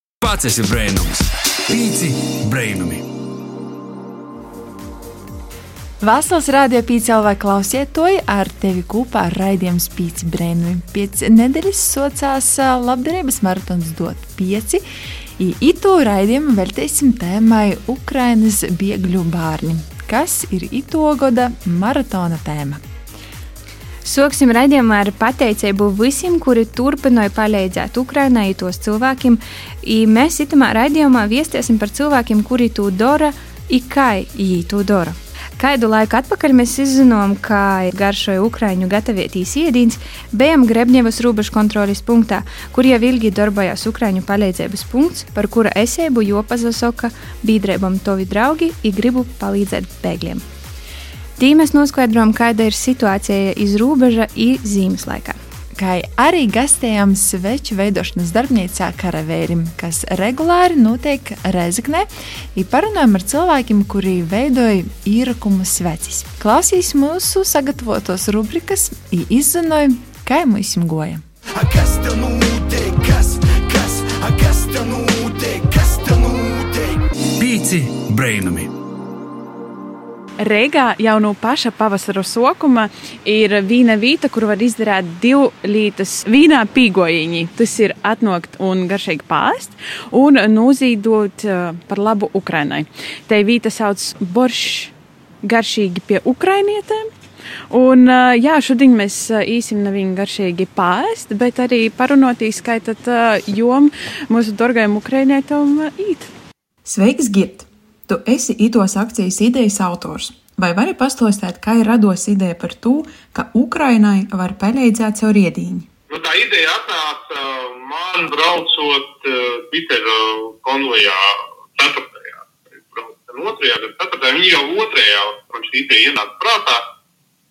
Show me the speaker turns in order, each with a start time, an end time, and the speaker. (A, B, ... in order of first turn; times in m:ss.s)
0:00.2-0:03.0 A
0:06.0-0:14.8 B
0:15.4-0:22.8 B
0:24.0-0:50.4 C
0:51.4-0:55.4 C
0:55.8-1:11.2 B
1:11.8-1:13.0 D
1:14.8-1:16.3 D
1:17.4-1:18.7 A
1:20.4-1:37.1 E
1:37.7-1:46.3 E
1:46.8-1:55.9 F
1:56.1-2:06.8 G